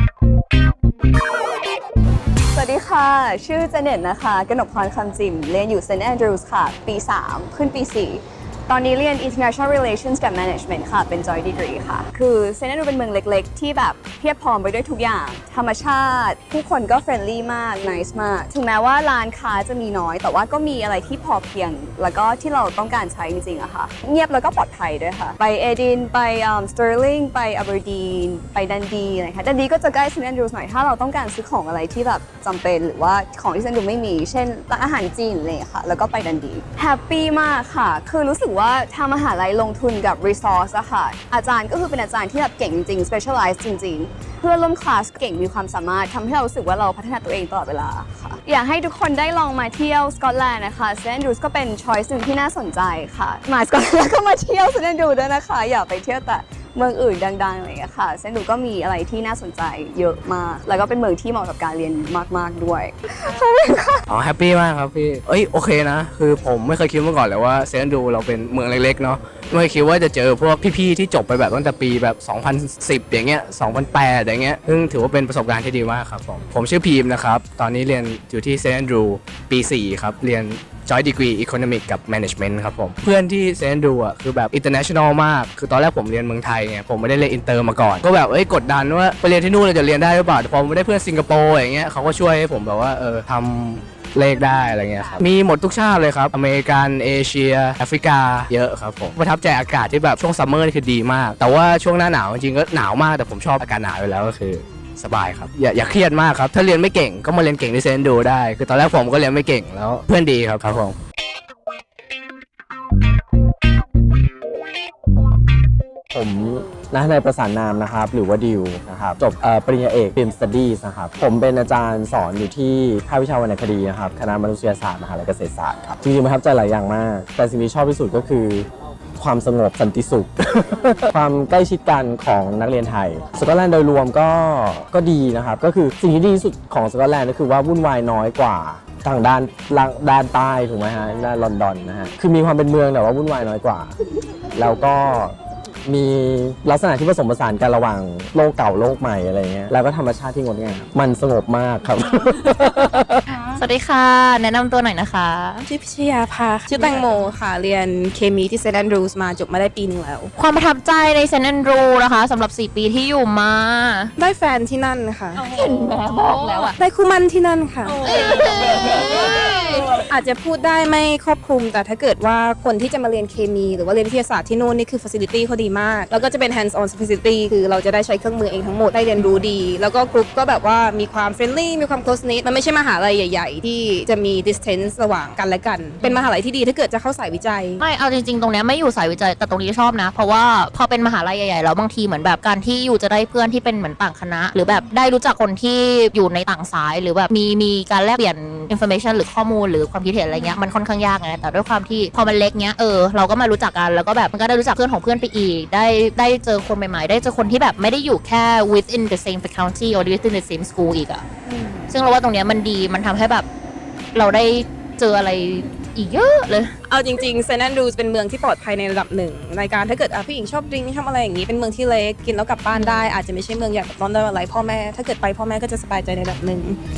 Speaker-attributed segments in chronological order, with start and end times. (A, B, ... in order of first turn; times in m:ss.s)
0:02.5-1:04.0 A
1:04.1-1:51.0 B
1:56.1-2:08.7 C
2:09.2-2:23.9 C
2:24.5-2:33.4 C
2:33.4-2:35.7 D
2:35.7-2:40.3 E
2:40.4-2:44.1 D
2:44.2-2:45.4 E
2:45.4-2:46.8 D
2:46.7-2:48.4 E
2:48.0-2:50.0 D
2:49.0-3:07.8 E
3:06.0-3:06.3 D
3:07.8-3:31.3 D
3:31.5-3:31.8 E
3:31.9-3:33.5 D
3:34.1-3:36.7 D
3:36.8-3:46.8 E
3:42.7-3:43.1 D